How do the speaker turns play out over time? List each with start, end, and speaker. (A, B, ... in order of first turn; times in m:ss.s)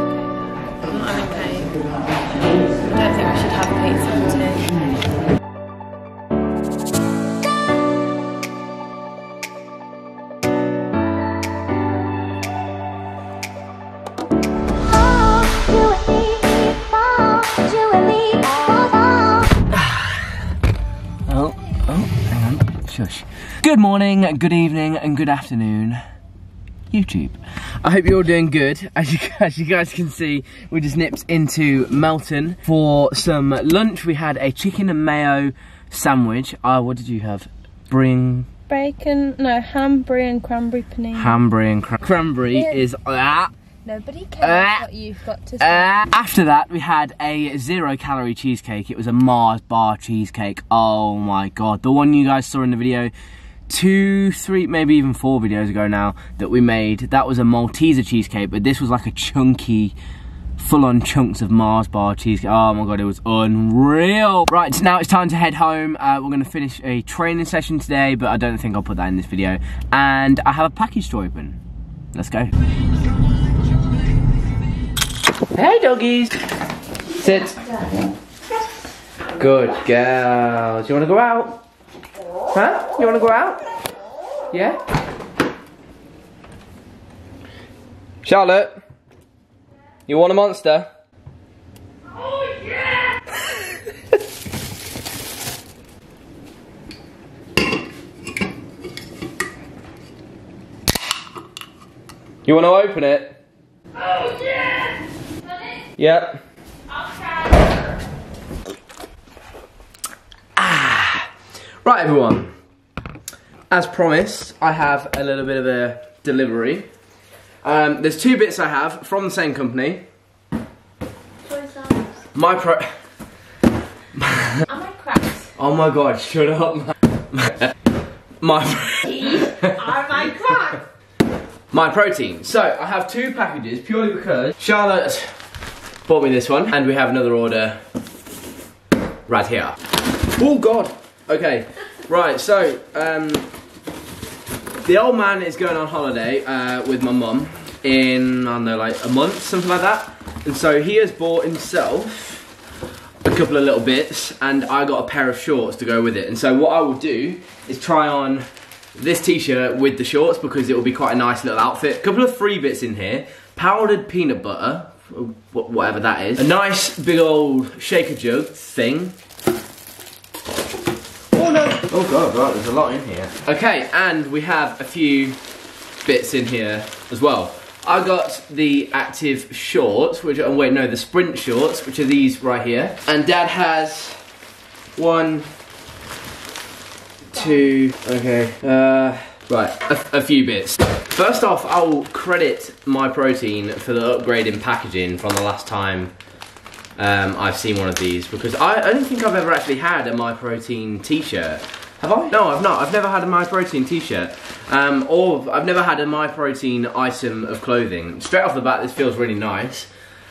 0:00.8-0:01.8 A
0:02.8-0:04.8 A
0:15.7-0:19.0 A
0:19.7-0:20.3 B
0:21.3-0:26.0 B
0:26.9-0:38.5 B
0:38.7-0:41.3 A
0:41.1-0:43.5 B
0:43.8-0:46.1 A
0:44.4-0:44.9 B
0:45.6-0:53.1 B
0:53.7-0:59.9 B
1:00.6-1:11.6 B
1:12.1-1:12.5 B
1:15.5-1:16.4 B
1:17.2-1:17.6 B
1:19.4-1:21.6 B
1:22.5-1:23.6 B
1:24.5-1:24.8 B
1:28.2-1:28.8 B
1:30.1-1:30.9 B
1:42.4-1:43.4 B
1:46.0-1:46.4 B
1:50.6-1:51.3 B
1:51.8-1:52.5 B
1:53.7-1:56.9 B
1:57.6-2:00.0 B
2:01.4-2:02.2 A
2:02.3-2:02.9 B
2:04.1-2:04.6 B
2:04.7-2:05.4 A
2:05.6-2:07.7 B
2:08.4-2:10.7 B
2:09.1-2:10.8 A
2:11.7-2:15.3 B
2:16.0-2:17.8 B
2:19.3-2:19.8 B
2:20.4-2:23.5 B
2:24.8-2:32.5 B
2:33.2-2:49.2 B
2:51.3-2:55.4 B
2:56.0-3:04.2 B
3:05.0-3:05.5 B
3:07.3-3:16.1 B
3:17.0-3:29.9 B